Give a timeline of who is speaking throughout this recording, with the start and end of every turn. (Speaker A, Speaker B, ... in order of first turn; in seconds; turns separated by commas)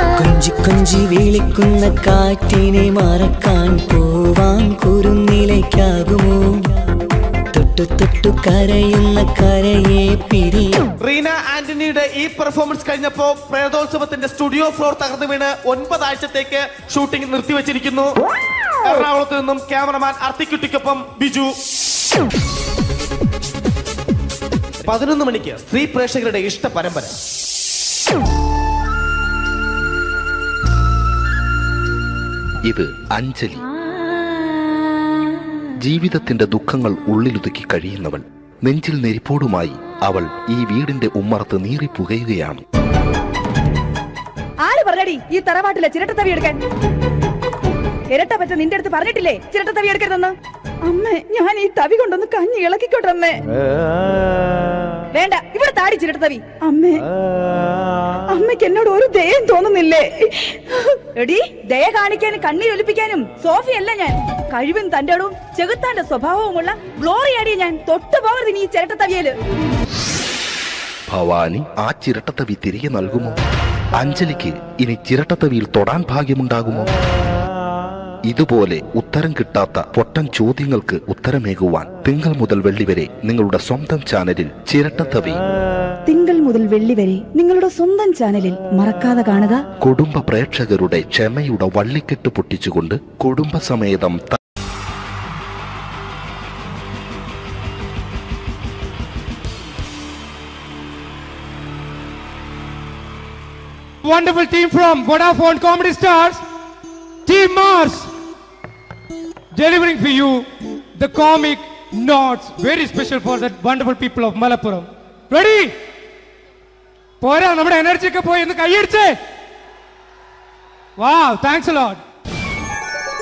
Speaker A: 0.2-6.7, Speaker A: 7.5-10.8, Speaker B: 11.0-18.1, Speaker B: 18.8-21.5, Speaker B: 24.8-27.1, Speaker C: 32.6-33.6, Speaker C: 35.8-42.6, Speaker D: 44.6-46.6, Speaker D: 48.1-50.3, Speaker D: 50.8-53.4, Speaker D: 55.1-57.0, Speaker D: 58.3-69.3, Speaker C: 71.1-73.3, Speaker C: 74.0-76.8, Speaker C: 78.3-85.4, Speaker D: 86.1-89.6, Speaker C: 89.8-94.4, Speaker E: 104.0-106.4, Speaker E: 107.3-108.1, Speaker E: 109.5-110.4, Speaker E: 111.0-115.7, Speaker E: 117.2-119.1, Speaker E: 121.0-122.0